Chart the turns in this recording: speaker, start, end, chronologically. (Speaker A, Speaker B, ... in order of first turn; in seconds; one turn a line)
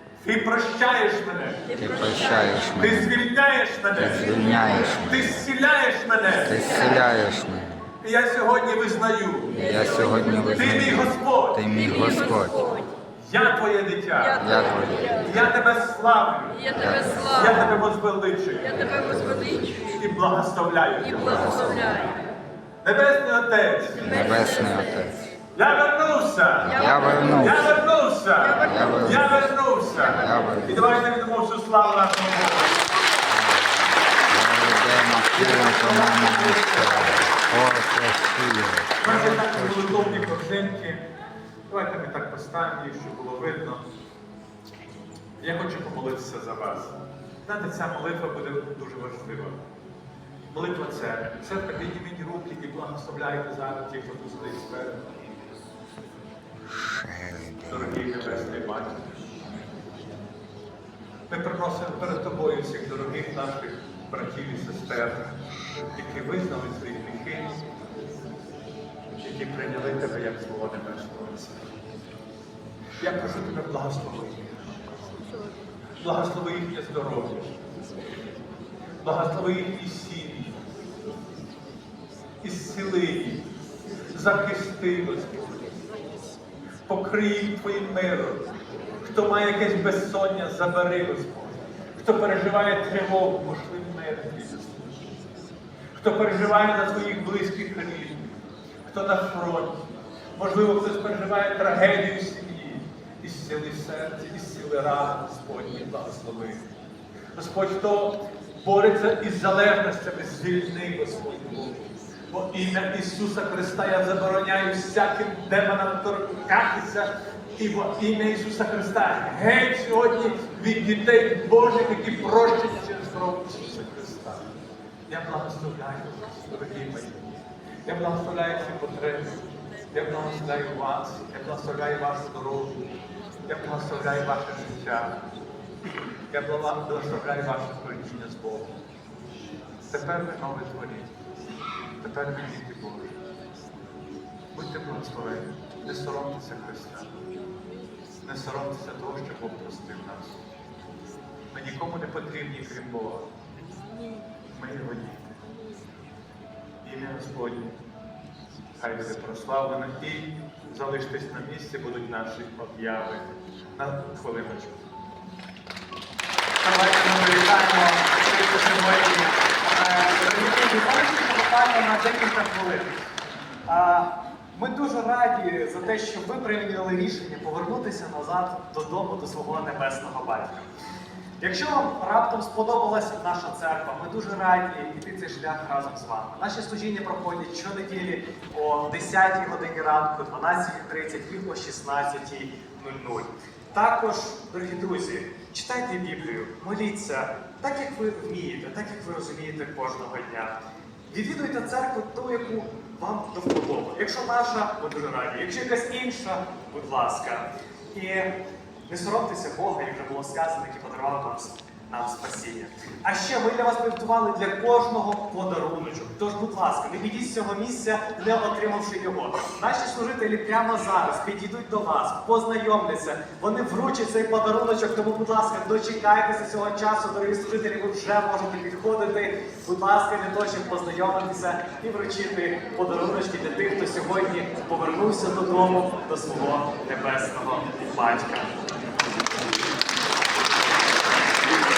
Speaker A: 0.2-1.7
Speaker B: 1.8-3.2
Speaker A: 2.8-6.6
Speaker B: 3.9-5.4
Speaker B: 6.5-7.9
Speaker A: 8.0-9.6
Speaker B: 9.6-12.8
Speaker A: 10.5-11.6
Speaker A: 13.1-14.4
Speaker B: 14.4-15.5
Speaker A: 15.2-16.6
Speaker B: 16.7-17.8
Speaker A: 17.3-18.9
Speaker B: 18.9-20.0
Speaker A: 20.0-21.8
Speaker B: 21.2-22.1
Speaker A: 22.8-24.1
Speaker B: 24.0-25.3
Speaker A: 25.5-32.8
Speaker B: 26.6-27.7
Speaker B: 28.6-29.5
Speaker B: 30.1-30.9
Speaker B: 33.2-40.4
Speaker A: 35.3-37.4
Speaker A: 39.0-41.0
Speaker A: 41.7-43.8
Speaker A: 45.4-49.6
Speaker A: 50.5-55.2
Speaker B: 56.8-58.6
Speaker A: 57.7-59.2
Speaker A: 61.3-65.4
Speaker A: 65.9-67.6
Speaker A: 69.2-71.7
Speaker A: 73.0-74.8
Speaker A: 76.0-77.5
Speaker A: 79.0-80.6
Speaker A: 82.4-83.4
Speaker A: 84.1-85.7
Speaker A: 86.9-88.4
Speaker A: 89.0-94.7
Speaker A: 95.9-98.2
Speaker A: 98.9-106.7
Speaker A: 107.3-124.5
Speaker A: 125.1-127.2
Speaker A: 127.8-129.3
Speaker A: 129.9-132.8
Speaker A: 133.5-135.2
Speaker A: 136.3-138.7
Speaker A: 139.9-141.1
Speaker A: 142.0-143.2
Speaker A: 144.5-147.2
Speaker A: 148.2-150.4
Speaker A: 151.5-153.3
Speaker A: 154.5-155.4
Speaker A: 156.8-157.7
Speaker A: 158.8-164.8
Speaker C: 166.6-172.9
Speaker C: 173.7-180.7
Speaker C: 181.4-200.6
Speaker C: 201.1-208.3
Speaker C: 208.9-238.6